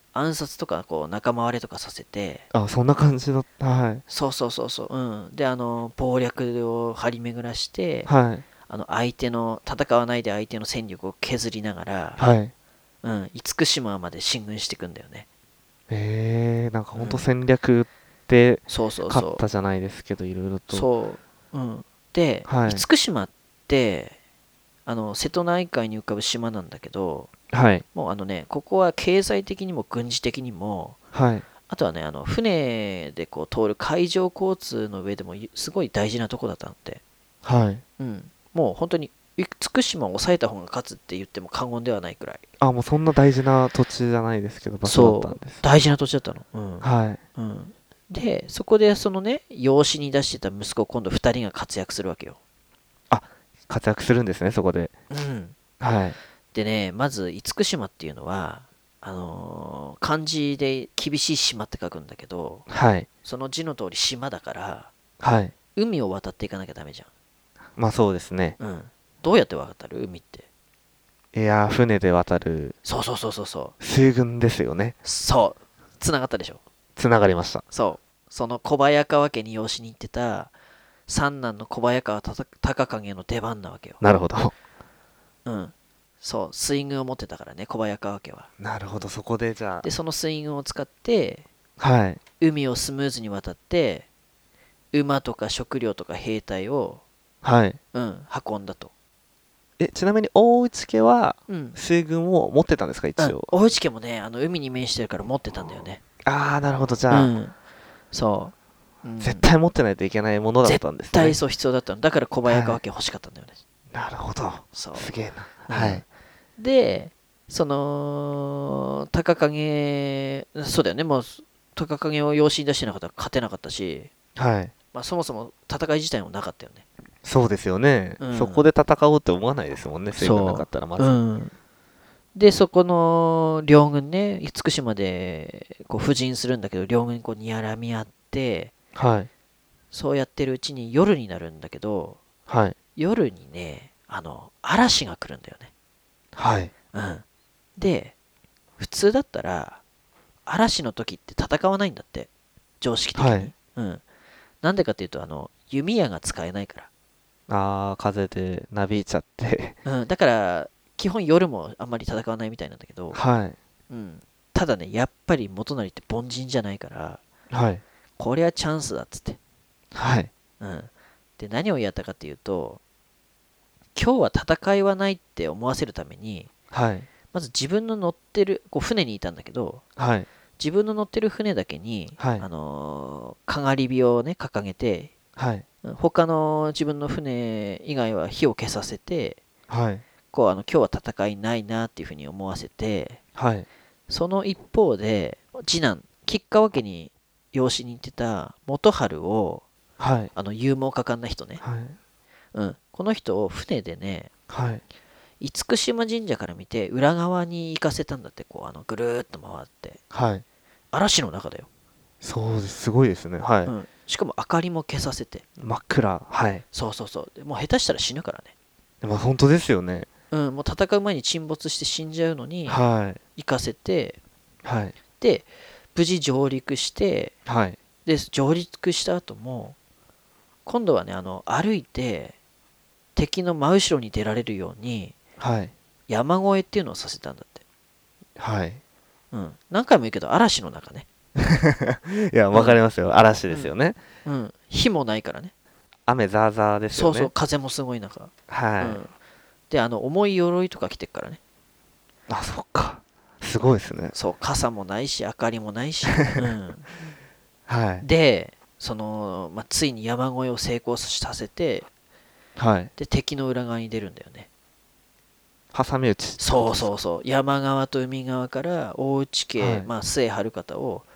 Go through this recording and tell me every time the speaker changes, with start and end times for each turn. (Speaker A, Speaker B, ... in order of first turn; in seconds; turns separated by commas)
Speaker A: 0.1-2.5, Speaker B: 2.5-4.0, Speaker A: 4.1-8.1, Speaker B: 8.1-8.4, Speaker A: 8.7-12.2, Speaker B: 12.2-12.5, Speaker A: 13.0-15.2, Speaker B: 15.9-20.9, Speaker A: 16.9-17.2, Speaker A: 18.7-19.4, Speaker A: 20.7-24.2, Speaker B: 22.5-22.8, Speaker A: 24.9-27.3, Speaker B: 27.5-27.8, Speaker A: 27.9-31.0, Speaker B: 31.1-31.4, Speaker A: 31.7-37.0, Speaker B: 37.4-37.8, Speaker A: 38.0-42.4, Speaker B: 42.6-45.6, Speaker A: 44.8-52.4, Speaker B: 46.8-47.2, Speaker B: 53.1-54.9, Speaker A: 55.1-55.5, Speaker B: 55.8-56.2, Speaker A: 56.5-62.6, Speaker B: 62.7-63.1, Speaker A: 63.2-64.9, Speaker B: 65.2-65.5, Speaker A: 65.7-67.1, Speaker B: 67.8-68.6, Speaker A: 68.6-70.5, Speaker B: 71.3-72.8, Speaker A: 72.8-73.7, Speaker B: 73.8-74.9, Speaker A: 75.0-76.6, Speaker B: 77.0-77.6, Speaker A: 77.7-80.5, Speaker A: 81.1-84.0, Speaker B: 84.0-84.5, Speaker A: 85.4-88.5, Speaker B: 88.6-89.9, Speaker A: 89.8-91.5, Speaker B: 91.8-92.2, Speaker A: 92.4-94.1, Speaker A: 94.9-97.0, Speaker B: 97.4-97.8, Speaker A: 97.9-98.9, Speaker B: 99.8-103.5, Speaker A: 101.5-101.8, Speaker A: 103.2-106.0, Speaker B: 106.2-107.3, Speaker A: 107.1-107.5, Speaker A: 108.1-109.5, Speaker B: 109.2-111.4, Speaker A: 110.6-113.6, Speaker B: 112.5-112.8, Speaker B: 113.9-116.0, Speaker A: 114.7-115.1, Speaker A: 115.7-116.0, Speaker A: 116.6-124.1, Speaker B: 124.3-124.7, Speaker A: 124.9-126.8, Speaker B: 127.2-131.2, Speaker A: 128.2-128.7, Speaker A: 130.1-131.5, Speaker A: 132.3-138.7, Speaker B: 138.9-139.3, Speaker A: 139.9-142.2, Speaker B: 142.5-142.8, Speaker A: 142.9-145.7, Speaker B: 146.3-146.7, Speaker A: 146.9-147.2, Speaker A: 147.8-148.1, Speaker A: 148.8-149.8, Speaker A: 150.4-152.3, Speaker A: 152.8-154.0, Speaker B: 153.2-153.5, Speaker A: 154.6-156.9, Speaker B: 157.5-159.8, Speaker A: 159.8-163.2, Speaker B: 163.1-163.6, Speaker A: 163.9-167.2, Speaker B: 167.5-167.8, Speaker A: 168.2-169.4, Speaker B: 169.9-170.3, Speaker A: 170.6-172.8, Speaker A: 173.9-176.5, Speaker B: 176.7-177.1, Speaker A: 177.3-179.8, Speaker B: 180.0-180.3, Speaker A: 180.6-185.1, Speaker B: 182.2-182.4, Speaker B: 185.3-185.6, Speaker A: 185.8-189.4, Speaker B: 189.7-190.0, Speaker A: 190.3-193.2, Speaker B: 193.3-193.7, Speaker A: 194.1-199.6, Speaker B: 200.0-200.3, Speaker A: 200.3-201.6, Speaker B: 201.6-201.9, Speaker A: 202.5-204.3, Speaker B: 204.5-204.8, Speaker A: 205.4-210.0, Speaker B: 210.1-210.4, Speaker A: 210.9-211.7, Speaker B: 212.2-213.7, Speaker A: 213.6-215.4, Speaker B: 215.6-216.6, Speaker A: 216.7-218.5, Speaker B: 219.0-220.1, Speaker A: 220.3-222.8, Speaker B: 222.7-223.2, Speaker A: 223.3-224.2, Speaker B: 224.6-224.9, Speaker A: 225.2-227.3, Speaker B: 227.4-227.8, Speaker A: 228.0-229.8, Speaker A: 230.7-232.3, Speaker A: 233.1-235.2, Speaker B: 235.4-235.7, Speaker A: 236.1-237.6, Speaker B: 238.4-238.8, Speaker A: 239.3-241.1, Speaker B: 241.3-244.0, Speaker A: 242.5-242.8, Speaker A: 244.2-245.5, Speaker B: 246.1-247.3, Speaker A: 246.9-249.1, Speaker B: 248.5-249.0, Speaker A: 249.7-251.4, Speaker B: 252.3-254.1, Speaker A: 254.1-256.9, Speaker B: 257.7-258.1, Speaker A: 258.0-261.9, Speaker B: 262.6-262.9, Speaker A: 263.0-264.5, Speaker B: 265.7-266.9, Speaker A: 266.4-271.0, Speaker B: 269.6-269.9